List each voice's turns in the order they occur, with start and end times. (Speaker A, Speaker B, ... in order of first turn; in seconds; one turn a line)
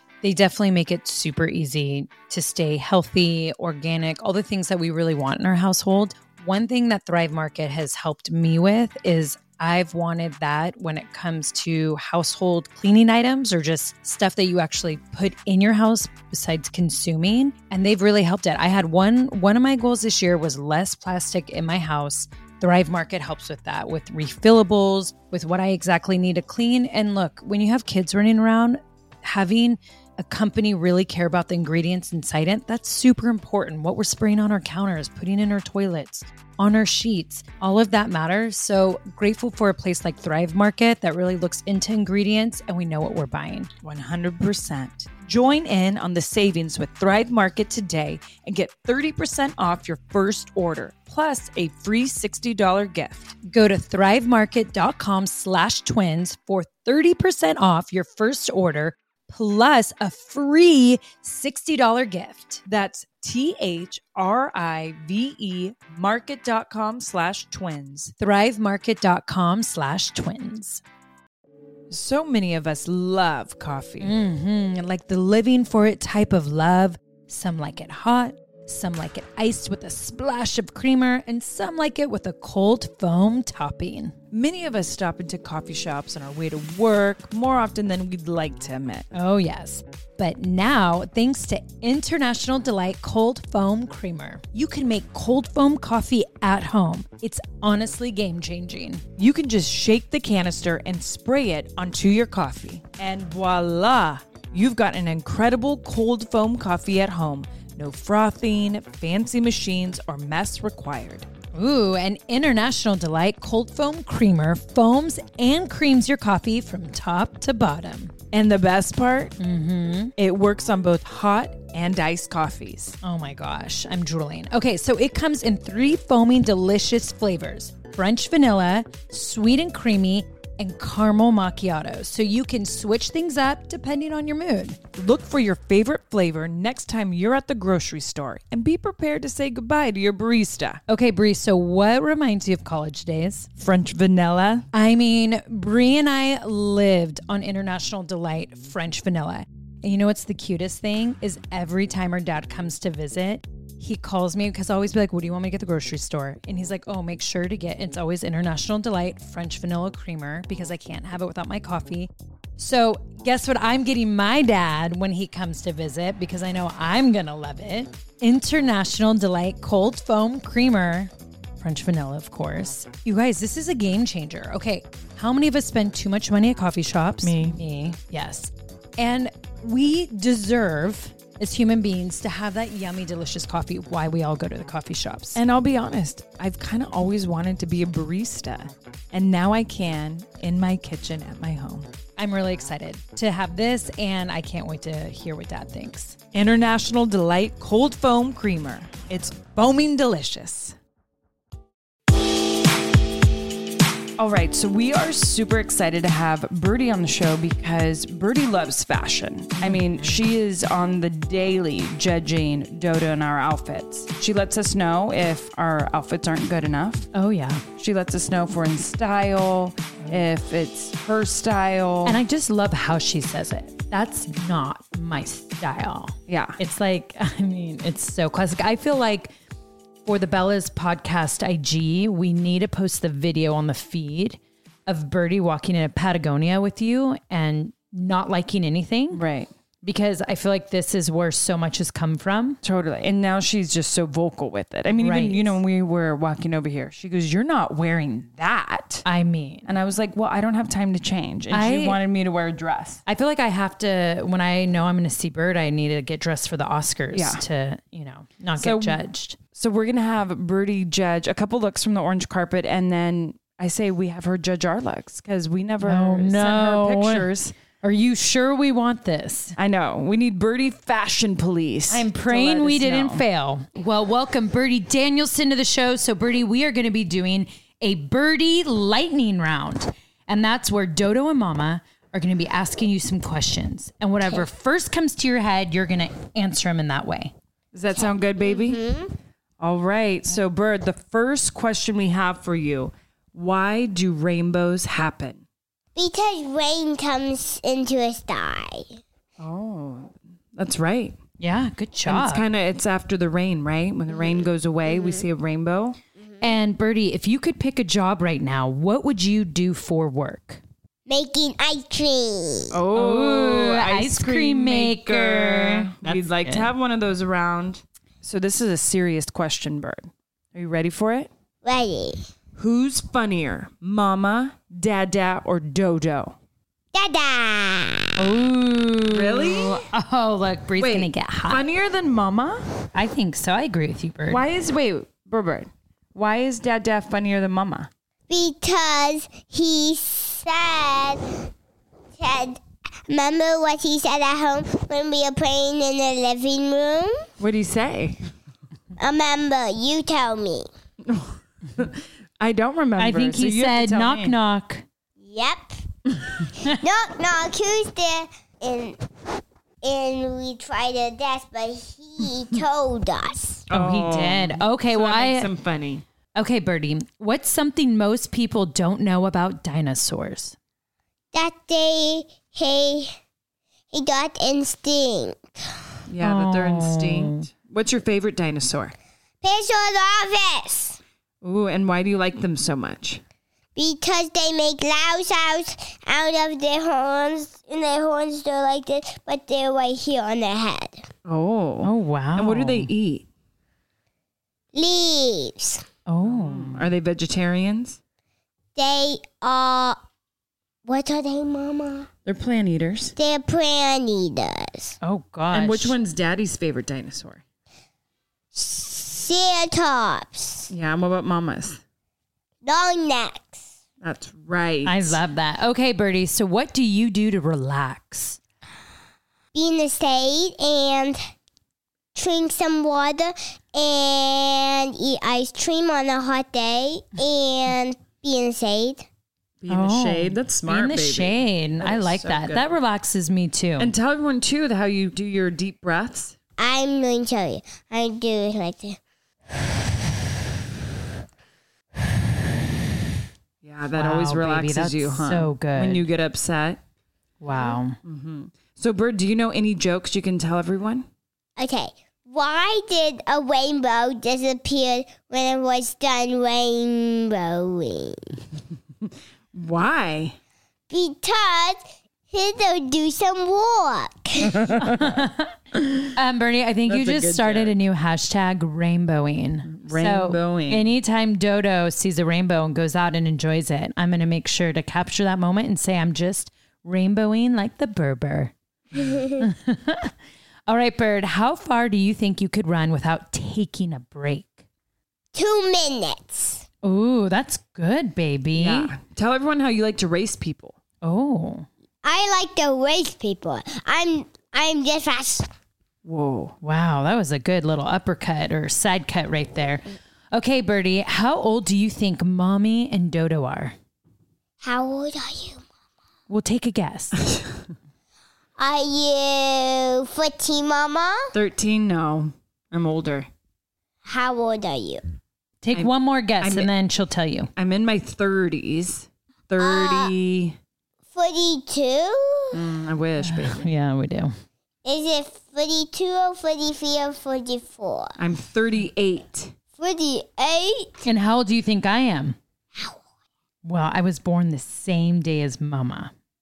Speaker A: 0.2-43.7
Speaker B: 43.8-53.4
Speaker A: 53.4-62.6
Speaker B: 62.6-68.1
Speaker A: 68.2-70.8
Speaker B: 71.9-74.1
Speaker A: 74.0-84.1
Speaker B: 84.3-89.1
Speaker A: 89.1-99.0
Speaker B: 99.2-111.3
Speaker A: 111.5-118.1
Speaker B: 118.3-119.3
Speaker A: 119.4-120.1
Speaker B: 120.2-123.0
Speaker A: 123.0-134.8
Speaker B: 134.9-140.8
Speaker A: 140.9-143.5
Speaker B: 143.6-144.7
Speaker A: 144.7-185.4
Speaker B: 177.2-177.6
Speaker B: 185.3-191.9
Speaker A: 192.2-196.2
Speaker B: 196.3-200.8
Speaker B: 204.2-217.1
Speaker A: 209.6-210.2
Speaker A: 217.1-217.6
Speaker B: 217.8-222.2
Speaker A: 222.0-229.3
Speaker B: 226.3-226.6
Speaker A: 230.0-239.2
Speaker B: 239.1-239.5
Speaker A: 239.8-242.6
Speaker B: 242.6-249.1
Speaker A: 244.9-245.6
Speaker A: 249.0-249.7
Speaker B: 249.7-253.0
Speaker A: 251.5-252.0
Speaker A: 253.1-259.4
Speaker B: 257.1-257.4
Speaker B: 258.6-267.5
Speaker A: 265.8-269.5
Speaker B: 269.6-273.2
Speaker A: 271.9-287.3
Speaker B: 287.7-288.8
Speaker C: 288.4-289.1
Speaker B: 289.6-295.4
Speaker C: 295.9-298.9
Speaker B: 299.4-301.1
Speaker A: 301.4-302.4
Speaker B: 302.1-306.0
Speaker C: 304.9-305.2
Speaker C: 306.2-306.5
Speaker A: 306.4-310.6
Speaker C: 311.1-312.8
Speaker B: 312.7-321.3
Speaker A: 312.9-316.7
Speaker C: 321.6-322.3
Speaker B: 322.5-326.4
Speaker C: 326.9-328.1
Speaker A: 328.2-331.6
Speaker B: 329.1-329.9
Speaker B: 330.8-332.6
Speaker A: 332.9-334.4
Speaker B: 334.3-337.9
Speaker C: 338.3-341.3
Speaker C: 342.2-347.3
Speaker B: 347.4-348.2
Speaker C: 349.0-350.7
Speaker B: 351.0-354.4
Speaker A: 353.0-354.8
Speaker C: 355.2-355.8
Speaker C: 356.6-359.0
Speaker C: 359.8-363.6
Speaker B: 363.7-366.0
Speaker A: 363.7-365.5
Speaker A: 366.3-370.6
Speaker C: 371.3-373.1
Speaker C: 373.9-375.4
Speaker B: 376.1-378.9
Speaker A: 376.2-377.5
Speaker C: 379.4-381.0
Speaker B: 381.4-383.2
Speaker C: 383.7-391.1
Speaker B: 391.2-393.3
Speaker A: 391.8-392.9
Speaker C: 394.7-395.8
Speaker A: 396.1-396.9
Speaker B: 396.2-398.0
Speaker C: 398.8-400.0
Speaker C: 400.8-402.1
Speaker B: 402.2-403.1
Speaker C: 403.1-404.9
Speaker A: 405.0-405.9
Speaker B: 405.5-407.4
Speaker C: 408.5-410.7
Speaker B: 410.7-411.8
Speaker C: 412.6-413.6
Speaker B: 414.0-415.2
Speaker A: 414.8-418.4
Speaker C: 419.5-421.2
Speaker C: 422.1-429.1
Speaker B: 429.6-432.7
Speaker A: 429.7-433.9
Speaker B: 433.8-436.4
Speaker C: 436.6-439.0
Speaker B: 443.6-446.8
Speaker A: 443.9-446.1
Speaker A: 447.4-448.0
Speaker B: 448.0-451.1
Speaker C: 451.6-458.4
Speaker B: 459.5-460.4
Speaker C: 460.9-461.8
Speaker C: 462.3-464.6
Speaker B: 464.5-465.2
Speaker A: 464.8-465.5
Speaker B: 465.8-466.1
Speaker A: 466.1-478.5
Speaker B: 466.9-467.8
Speaker B: 469.6-470.9
Speaker C: 479.0-479.4
Speaker A: 479.4-480.1
Speaker A: 480.7-484.6
Speaker C: 485.3-486.6
Speaker A: 486.8-488.9
Speaker B: 488.5-490.8
Speaker A: 491.0-491.7
Speaker C: 492.0-495.5
Speaker B: 496.0-496.6
Speaker A: 496.6-503.7
Speaker C: 504.6-505.6
Speaker A: 506.3-507.2
Speaker C: 508.6-511.3
Speaker B: 511.3-513.3
Speaker C: 514.0-515.0
Speaker A: 515.6-517.5
Speaker B: 516.4-516.7
Speaker B: 517.5-520.6
Speaker C: 519.6-520.1
Speaker C: 521.1-522.6
Speaker B: 522.5-523.7
Speaker A: 523.2-524.3
Speaker C: 524.8-528.1
Speaker B: 528.2-529.5
Speaker C: 529.8-531.0
Speaker A: 531.0-532.4
Speaker A: 533.6-536.1